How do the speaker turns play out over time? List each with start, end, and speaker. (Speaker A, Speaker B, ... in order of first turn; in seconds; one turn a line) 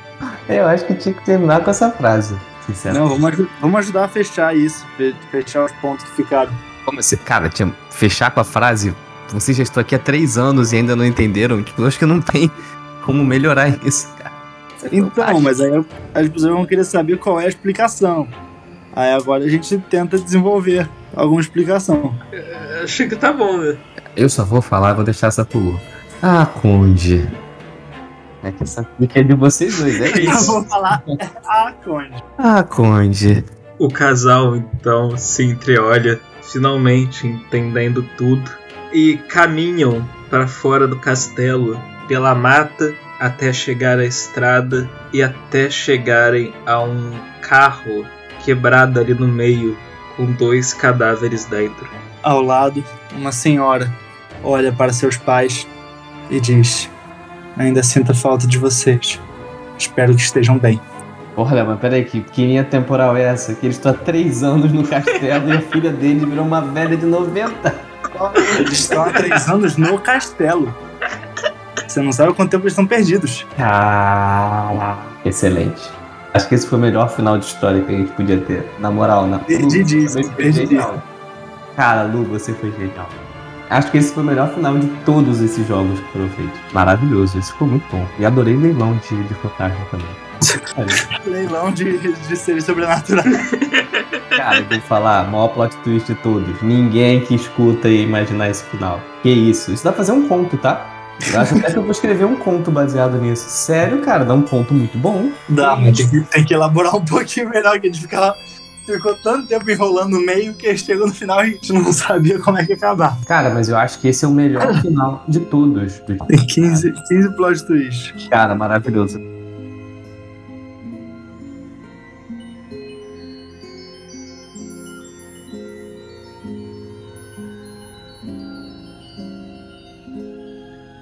Speaker A: 0.5-3.0
Speaker B: 2.9-6.5
Speaker A: 6.9-15.5
Speaker B: 14.9-18.3
Speaker B: 18.9-22.2
Speaker C: 22.4-23.8
Speaker A: 24.2-27.3
Speaker A: 28.4-31.1
Speaker C: 30.1-30.6
Speaker B: 30.1-32.2
Speaker A: 32.4-33.4
Speaker C: 33.8-51.9
Speaker B: 52.2-55.7
Speaker B: 56.3-56.9
Speaker B: 57.5-59.2
Speaker B: 59.8-60.8
Speaker A: 61.4-67.9
Speaker B: 68.2-70.8
Speaker C: 68.4-68.6
Speaker B: 71.9-73.5
Speaker A: 73.6-81.0
Speaker B: 79.5-81.0
Speaker A: 81.8-83.2
Speaker A: 83.7-90.2
Speaker B: 90.5-93.4
Speaker A: 90.7-91.0
Speaker C: 93.6-94.0
Speaker A: 94.3-105.4
Speaker B: 105.5-113.2
Speaker A: 113.3-116.9
Speaker B: 116.3-118.2
Speaker A: 118.2-119.2